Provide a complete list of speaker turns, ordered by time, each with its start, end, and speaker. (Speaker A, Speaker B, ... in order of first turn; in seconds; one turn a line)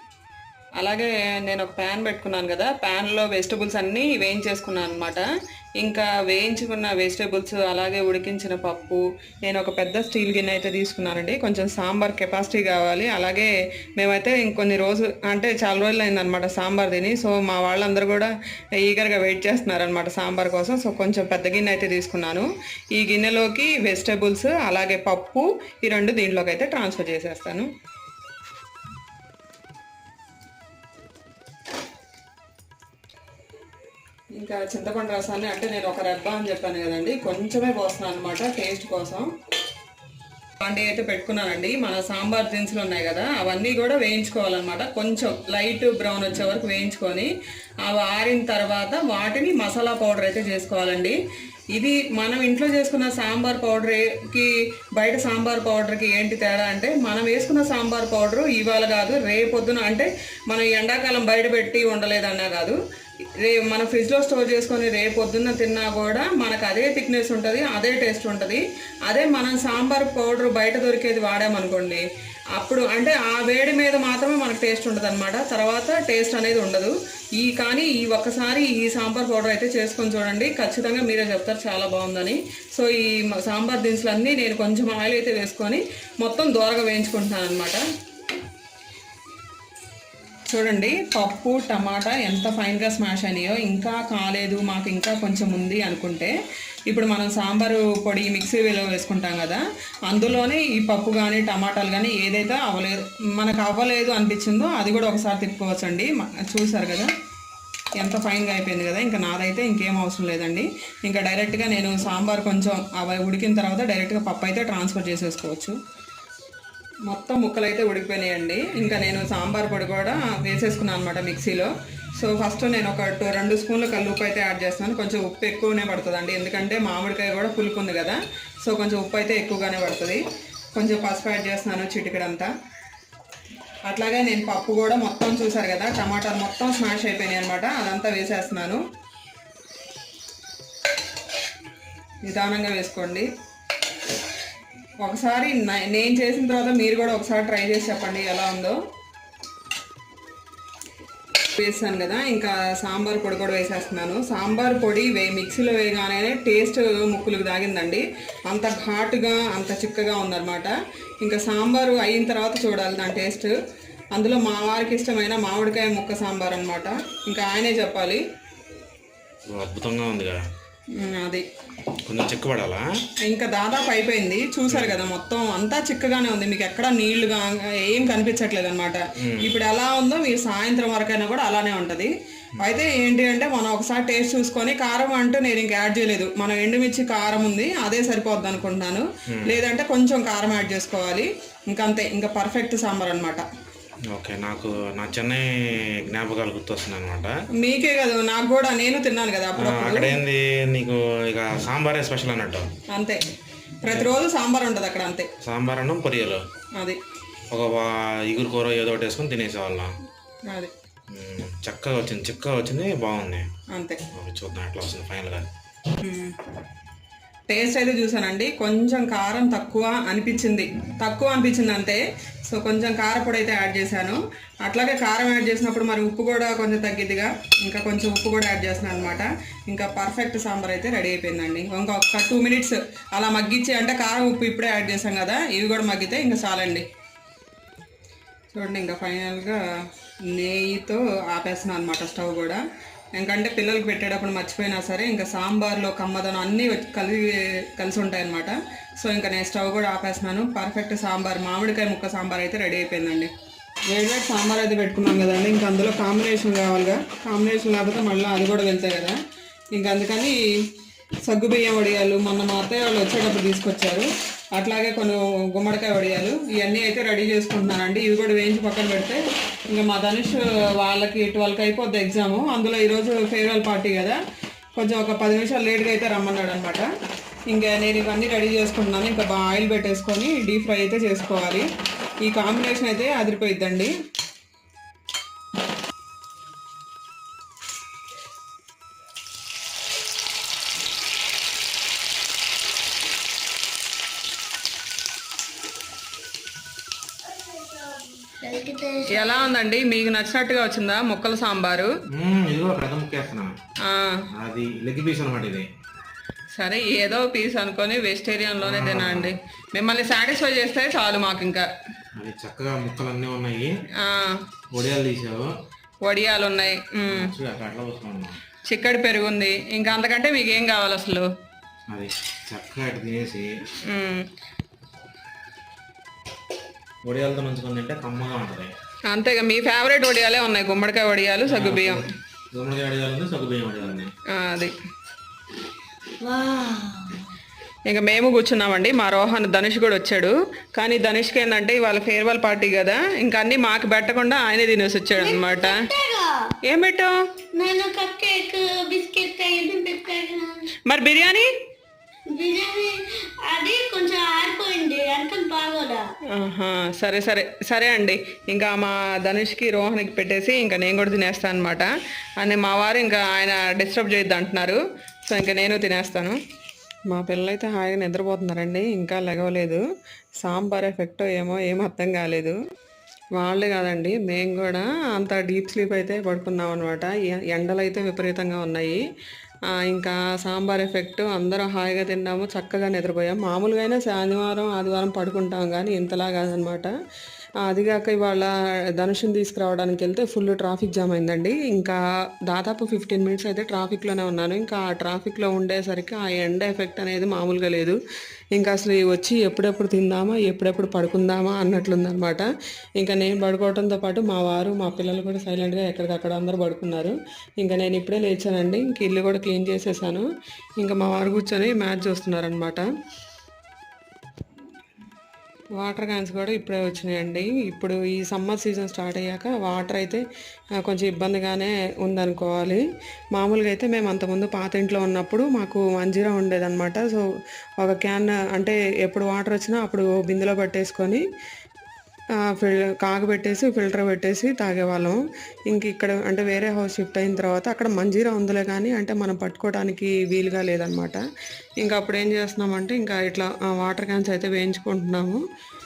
Speaker A: 0.8-5.2
Speaker A: 5.8-27.7
Speaker A: 34.4-39.3
Speaker A: 40.6-47.3
Speaker A: 47.8-51.1
Speaker A: 51.7-62.8
Speaker A: 63.4-87.8
Speaker A: 90.5-96.3
Speaker A: 96.9-107.1
Speaker A: 108.0-115.8
Speaker A: 117.1-130.2
Speaker A: 130.8-132.5
Speaker A: 133.9-138.8
Speaker A: 142.2-143.3
Speaker A: 145.0-148.8
Speaker A: 151.5-163.5
Speaker A: 164.1-168.2
Speaker B: 169.5-170.4
Speaker A: 170.9-171.4
Speaker B: 172.0-172.9
Speaker A: 173.2-193.4
Speaker B: 174.7-175.0
Speaker B: 179.2-179.6
Speaker B: 189.3-189.6
Speaker B: 194.1-197.4
Speaker A: 197.6-200.2
Speaker B: 199.6-202.7
Speaker A: 202.9-203.2
Speaker A: 203.8-205.3
Speaker B: 203.8-204.1
Speaker B: 205.4-206.4
Speaker B: 207.5-209.9
Speaker B: 211.1-213.5
Speaker A: 213.7-214.0
Speaker B: 214.1-215.5
Speaker A: 216.0-216.4
Speaker A: 217.5-236.8
Speaker A: 238.5-239.6
Speaker A: 240.2-242.6
Speaker A: 243.1-253.3
Speaker A: 253.9-259.2
Speaker A: 259.7-260.4
Speaker A: 261.2-274.2
Speaker A: 274.8-276.9
Speaker A: 277.5-281.6
Speaker A: 282.2-283.9
Speaker C: 297.3-299.5
Speaker A: 299.1-301.9
Speaker B: 302.1-303.5
Speaker A: 303.8-304.2
Speaker B: 304.3-305.7
Speaker A: 306.6-311.7
Speaker B: 308.6-309.3
Speaker B: 312.1-313.8
Speaker A: 314.0-314.4
Speaker B: 314.7-315.5
Speaker A: 316.0-317.3
Speaker B: 317.1-318.4
Speaker A: 318.6-321.3
Speaker B: 321.9-323.6
Speaker A: 323.9-324.3
Speaker B: 327.0-328.7
Speaker A: 329.1-332.1
Speaker B: 331.4-334.1
Speaker A: 334.3-334.7
Speaker C: 336.2-337.3
Speaker A: 337.9-345.9
Speaker C: 345.1-346.5
Speaker A: 346.6-347.1
Speaker C: 347.5-350.7
Speaker A: 350.8-351.5
Speaker C: 352.3-356.1
Speaker A: 356.3-366.4
Speaker A: 367.1-369.8
Speaker A: 370.4-372.6
Speaker A: 373.4-379.0
Speaker A: 379.7-386.9
Speaker A: 387.6-398.0
Speaker A: 398.5-402.4
Speaker A: 403.0-410.2
Speaker A: 410.8-412.9
Speaker A: 415.8-420.2
Speaker A: 420.8-422.8
Speaker A: 423.3-427.3
Speaker A: 427.8-431.2
Speaker A: 432.4-441.2
Speaker A: 441.8-445.4